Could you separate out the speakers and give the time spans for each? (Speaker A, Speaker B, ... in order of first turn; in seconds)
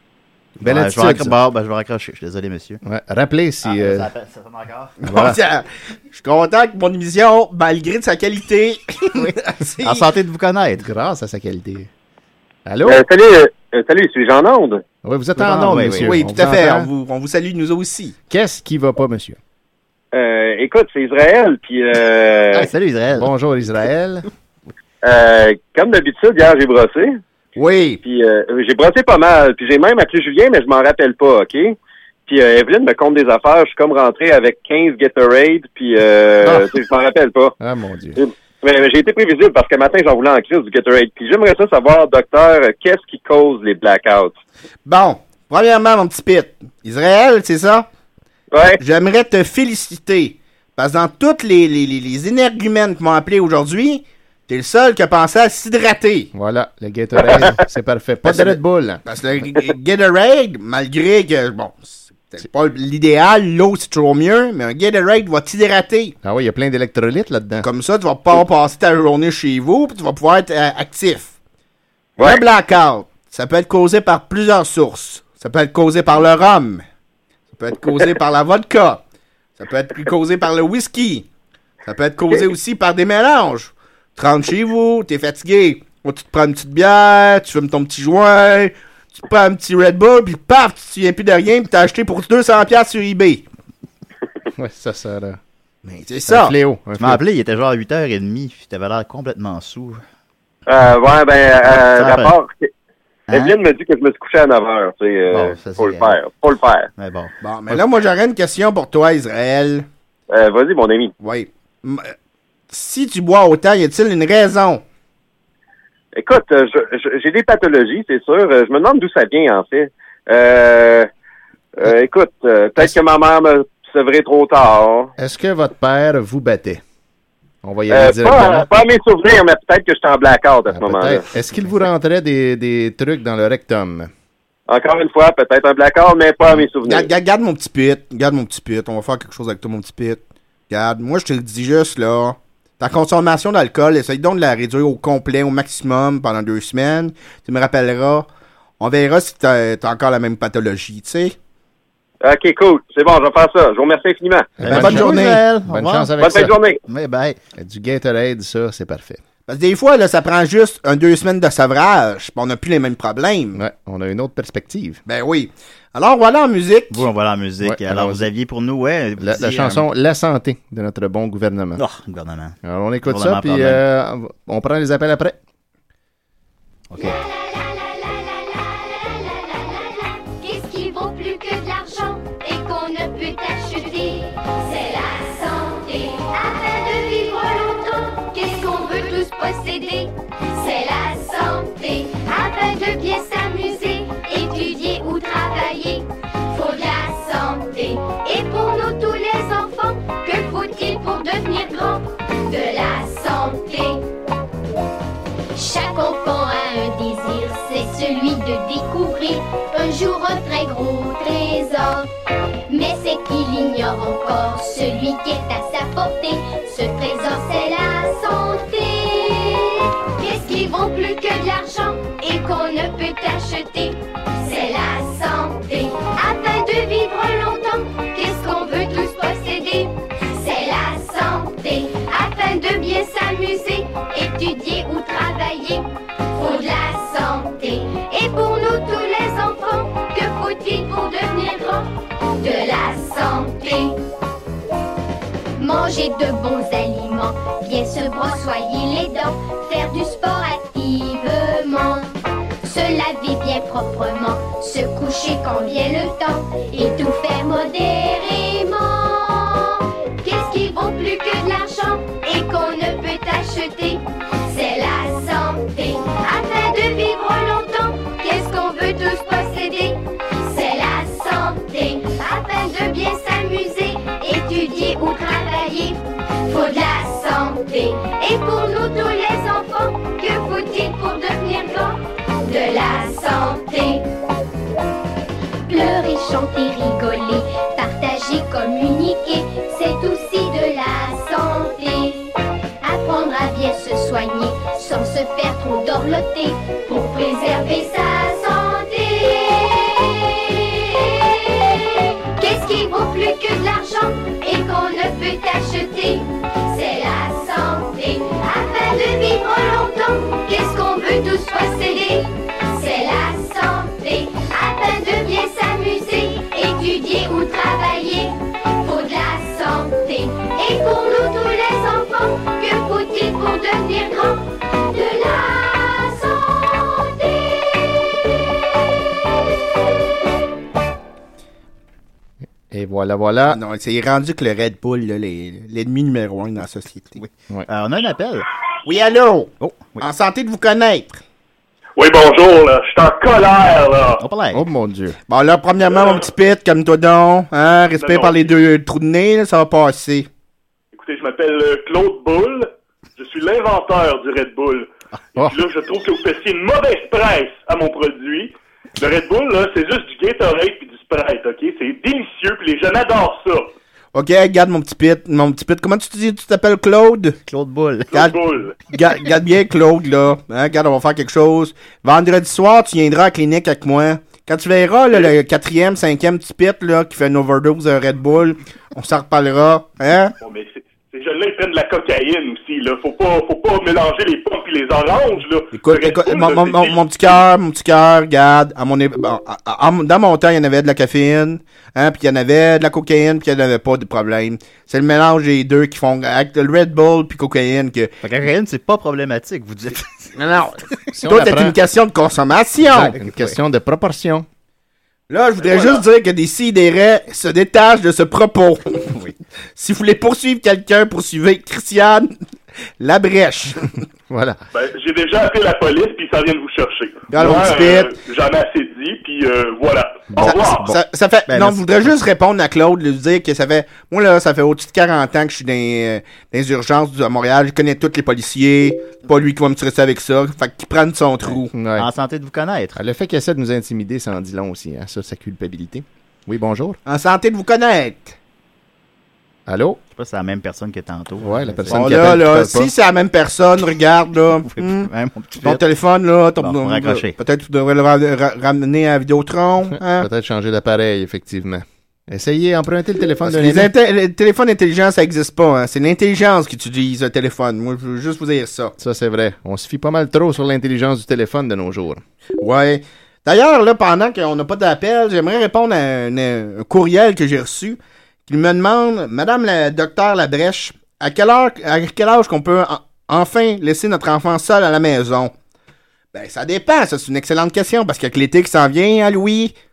Speaker A: 0.6-1.4, 2.8-4.1, 5.1-5.4, 10.8-11.9, 12.7-13.0, 15.0-16.9, 18.3-19.4, 23.1-24.3, 37.6-38.2, 56.3-59.0, 66.2-67.7, 94.6-95.4, 96.3-97.2, 125.2-126.8, 127.6-128.7, 130.7-134.1, 154.6-156.5, 157.6-159.2, 163.6-165.0, 167.6-168.3, 169.2-171.8, 172.6-175.4, 332.7-333.6, 344.5-345.2, 401.1-401.8, 402.8-404.5, 414.3-414.6, 431.7-432.1, 432.9-437.0, 439.7-440.0, 441.4-442.9, 449.9-453.9, 459.0-462.2
Speaker B: 0.6-2.8, 3.6-5.0, 9.2-10.9, 15.4-16.1, 22.6-23.3, 97.0-100.0, 101.7-102.3, 103.3-103.6, 105.3-106.2, 107.0-107.3, 154.6-157.4, 166.9-169.8, 171.8-173.8, 176.9-177.2, 337.2-338.4, 339.6-340.0, 344.2-344.6, 367.5-368.2, 398.2-400.3, 403.1-403.6, 420.4-421.0, 421.5-422.1, 432.0-433.0, 440.1-442.4, 444.7-445.8, 446.6-447.4
Speaker C: 5.0-10.0, 16.0-18.1, 27.6-28.0, 44.9-47.9, 48.8-56.3, 58.2-66.2, 67.6-71.3, 72.2-76.8, 77.5-79.0, 79.6-81.3, 81.8-93.5, 95.8-96.5, 107.4-109.9, 111.2-112.1, 112.7-114.8, 136.8-148.3, 148.8-151.3, 154.7-155.4, 159.5-163.6, 165.1-167.1, 333.5-337.2, 338.9-341.2, 345.3-350.3, 364.1-367.4, 368.9-380.3, 385.7-398.1, 400.4-403.2, 405.3-409.1, 409.8-412.3, 413.0-413.9, 417.3-418.1, 420.4-431.7, 437.1-438.4, 441.9-445.1, 445.6-450.3, 453.4-458.9, 462.6-475.5, 476.3-479.7
Speaker D: 12.8-14.8, 20.1-22.7, 25.0-27.2, 28.0-31.8, 32.3-37.5, 38.2-44.4, 48.5-48.8, 72.2-72.5, 100.7-102.7, 103.3-106.9, 110.3-111.1, 116.2-121.1, 121.8-125.1, 127.9-131.2, 134.7-137.1, 152.2-154.5, 156.2-156.8
Speaker E: 177.0-204.1, 205.6-212.1, 212.7-244.0, 245.6-284.1, 285.7-328.0
Speaker F: 342.0-344.2, 345.9-346.3, 348.0-348.5, 350.9-363.7, 368.1-368.8, 380.4-387.3, 414.7-420.9